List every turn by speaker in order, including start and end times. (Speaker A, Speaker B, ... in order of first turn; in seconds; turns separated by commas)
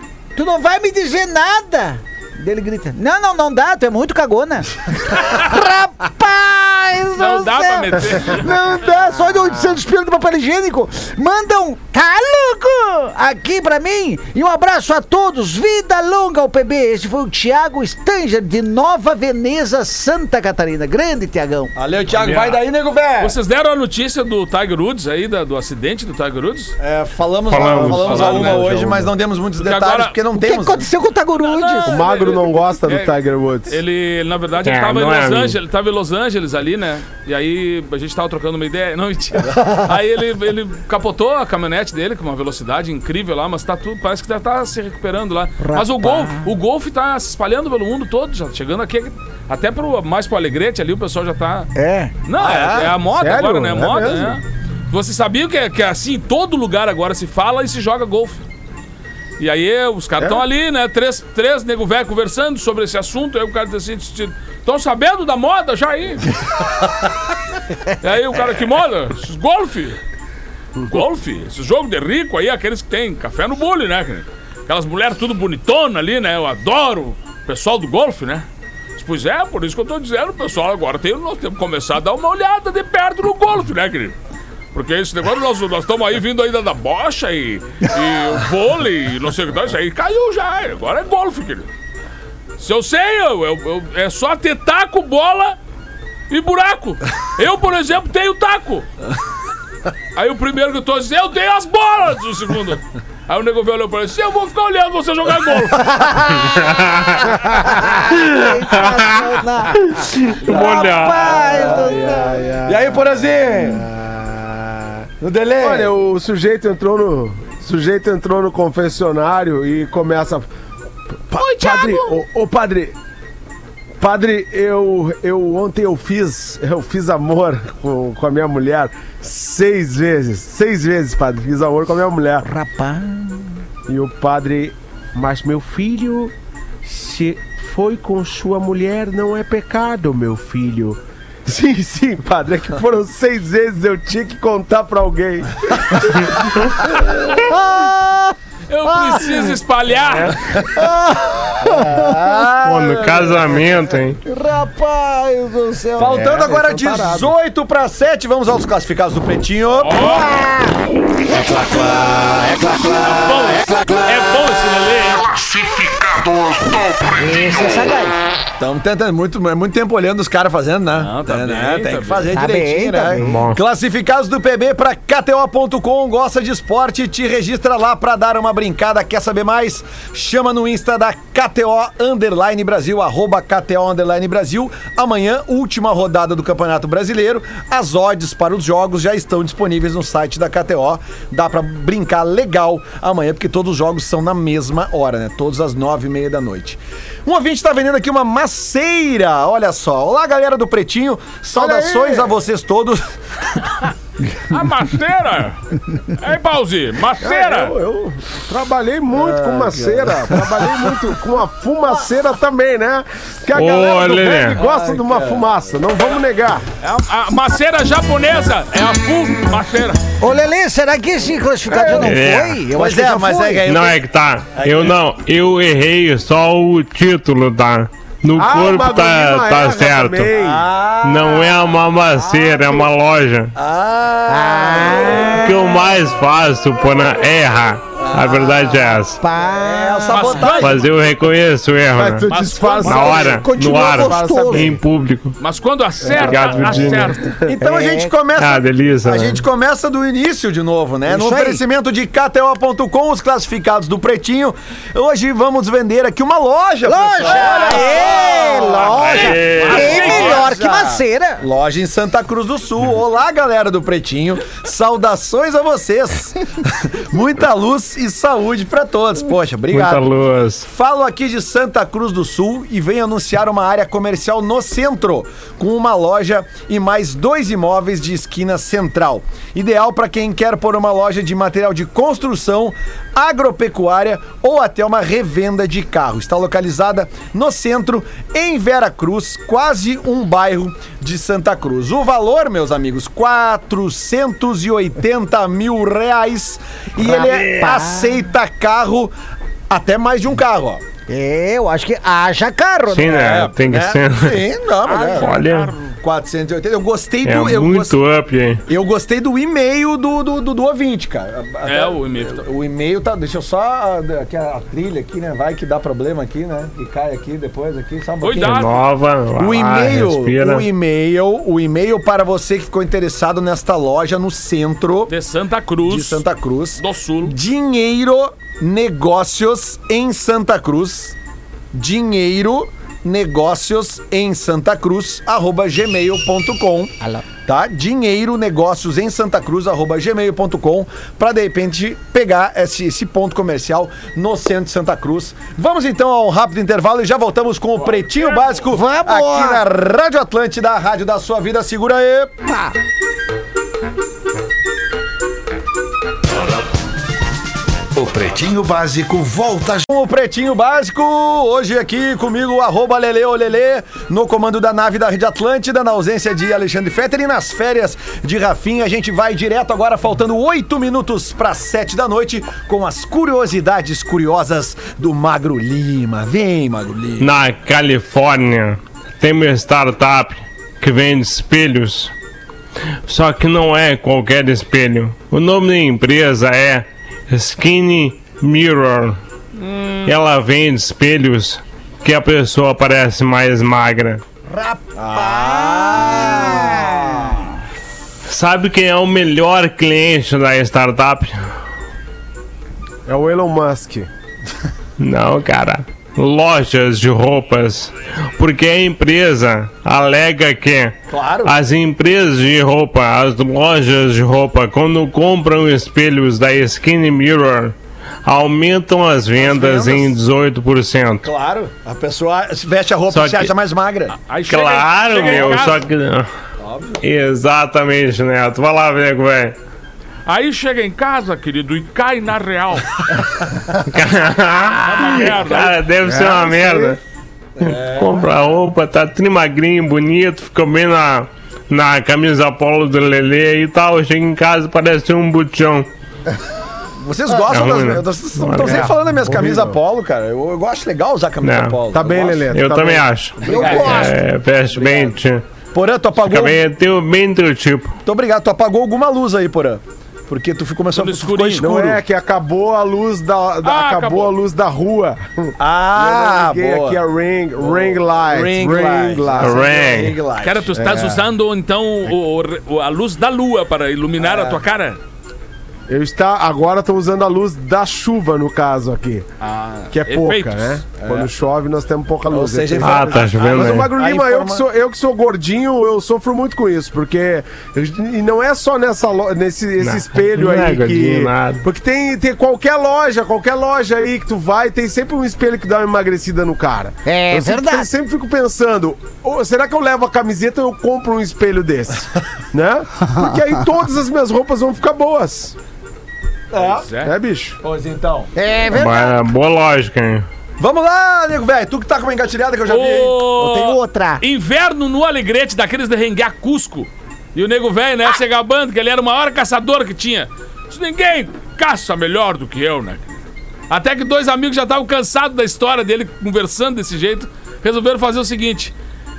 Speaker A: 0.3-21.7, Speaker B: 7.2-8.5, Speaker C: 21.8-23.4, Speaker D: 22.2-22.6, Speaker B: 23.2-26.8, Speaker C: 26.8-30.9, Speaker D: 27.5-28.7, Speaker E: 27.5-29.1, Speaker B: 28.1-28.7, Speaker B: 29.6-30.2, Speaker A: 30.3-32.1, Speaker B: 31.4-51.7, Speaker E: 31.9-33.8, Speaker D: 34.6-35.6, Speaker A: 45.6-46.5, Speaker A: 51.8-52.1, Speaker B: 52.3-58.4, Speaker C: 52.4-53.0, Speaker E: 53.1-54.4, Speaker B: 59.4-66.3, Speaker B: 68.0-70.0, Speaker B: 70.9-84.2, Speaker B: 84.7-91.7, Speaker B: 92.6-95.6, Speaker B: 96.3-98.9, Speaker B: 100.2-105.8, Speaker D: 106.4-107.4, Speaker A: 107.6-109.8, Speaker D: 108.1-109.1, Speaker D: 109.9-111.5, Speaker B: 110.4-110.8, Speaker C: 110.5-112.1, Speaker A: 110.7-112.4, Speaker E: 111.4-115.1, Speaker C: 112.6-113.9, Speaker C: 115.2-116.0, Speaker E: 115.6-120.5, Speaker E: 121.3-122.9, Speaker B: 121.4-122.2, Speaker E: 124.0-132.5, Speaker A: 132.4-133.6, Speaker E: 133.9-147.2, Speaker A: 147.3-148.3, Speaker B: 148.7-150.4, Speaker A: 148.9-149.4, Speaker A: 150.8-152.2, Speaker C: 151.7-153.8, Speaker E: 151.8-152.1, Speaker D: 152.6-154.2, Speaker A: 154.2-156.3, Speaker E: 156.0-157.3, Speaker C: 156.0-160.0, Speaker B: 159.8-160.4, Speaker A: 160.0-161.7, Speaker C: 161.6-163.4, Speaker B: 163.0-165.6, Speaker A: 167.2-168.1, Speaker C: 168.6-203.9, Speaker B: 171.0-172.3, Speaker A: 172.3-173.3, Speaker D: 173.2-173.6, Speaker E: 201.6-202.3, Speaker B: 204.5-205.6, Speaker B: 206.2-207.7, Speaker E: 207.2-216.6, Speaker C: 209.1-211.0, Speaker D: 213.5-214.6, Speaker C: 214.6-215.5, Speaker B: 216.8-220.0, Speaker A: 220.2-223.6, Speaker D: 221.9-222.6, Speaker C: 222.8-224.0, Speaker D: 223.7-230.3, Speaker C: 224.6-225.0, Speaker E: 228.4-230.7, Speaker C: 230.4-231.7, Speaker D: 231.0-233.5, Speaker A: 232.3-232.8, Speaker C: 233.6-235.4, Speaker A: 234.3-235.9, Speaker D: 235.3-239.2, Speaker C: 238.0-240.9, Speaker A: 239.2-240.4, Speaker B: 240.1-240.9, Speaker D: 240.4-242.3, Speaker E: 242.0-244.8, Speaker B: 242.3-243.4, Speaker D: 242.8-245.4, Speaker A: 243.4-244.7, Speaker B: 245.4-247.3, Speaker E: 246.1-247.5, Speaker D: 246.1-247.2, Speaker C: 247.4-270.1, Speaker A: 247.6-248.1, Speaker D: 248.4-249.4, Speaker A: 251.1-251.6, Speaker A: 256.9-261.4, Speaker B: 257.2-260.5, Speaker D: 259.1-260.1, Speaker D: 269.7-270.7, Speaker C: 270.6-299.1, Speaker A: 297.0-298.2, Speaker C: 299.7-300.8, Speaker A: 301.1-303.3, Speaker D: 302.9-304.5, Speaker C: 303.0-305.4, Speaker B: 304.8-306.0, Speaker D: 305.1-305.7, Speaker C: 306.0-308.0, Speaker D: 307.2-308.6, Speaker C: 308.7-318.8, Speaker B: 311.6-312.5, Speaker B: 318.2-318.8, Speaker D: 318.4-320.6, Speaker C: 319.4-325.1, Speaker B: 325.1-326.2, Speaker C: 325.9-331.1, Speaker B: 326.8-327.4, Speaker C: 331.7-352.3, Speaker B: 348.4-348.6, Speaker A: 348.7-349.6, Speaker F: 357.9-359.9, Speaker C: 359.9-377.3, Speaker D: 377.2-382.1, Speaker D: 383.1-389.2, Speaker B: 389.6-390.2, Speaker D: 390.1-394.2, Speaker A: 394.5-397.4, Speaker C: 395.0-397.4, Speaker D: 398.3-401.4, Speaker E: 403.1-404.1, Speaker D: 405.0-421.2, Speaker C: 411.1-411.6, Speaker C: 419.4-420.1, Speaker C: 421.2-424.2, Speaker D: 423.1-423.5, Speaker B: 424.1-425.9, Speaker D: 424.5-426.3, Speaker C: 425.1-425.7, Speaker C: 426.6-427.0, Speaker D: 427.0-429.6, Speaker B: 430.3-432.9, Speaker D: 433.8-437.0, Speaker B: 434.8-435.9, Speaker E: 436.1-437.0, Speaker C: 437.6-438.3, Speaker D: 437.6-445.9, Speaker C: 447.0-452.5, Speaker D: 447.5-448.9, Speaker E: 448.6-449.8, Speaker D: 451.4-451.8, Speaker E: 451.9-453.8, Speaker D: 452.5-455.4, Speaker C: 453.4-454.2, Speaker B: 453.5-454.2, Speaker C: 454.7-455.2, Speaker C: 455.7-456.6, Speaker D: 456.2-457.9, Speaker C: 458.1-462.0, Speaker B: 460.9-461.6, Speaker E: 461.6-469.7, Speaker B: 463.6-464.3, Speaker C: 465.6-467.0, Speaker C: 467.6-470.7, Speaker D: 469.4-470.2, Speaker B: 470.4-475.0, Speaker E: 470.8-471.2, Speaker C: 474.2-474.6, Speaker E: 475.9-479.3, Speaker E: 479.9-505.6, Speaker B: 480.1-480.8, Speaker C: 481.0-481.3, Speaker C: 482.3-484.7, Speaker D: 482.8-483.9, Speaker D: 489.8-491.6, Speaker A: 497.1-497.9, Speaker C: 506.5-506.9, Speaker B: 506.6-507.1, Speaker E: 507.0-507.6, Speaker C: 507.6-508.3, Speaker A: 508.4-509.2, Speaker D: 508.7-510.3, Speaker C: 510.6-513.2, Speaker B: 512.7-528.7, Speaker A: 513.4-514.2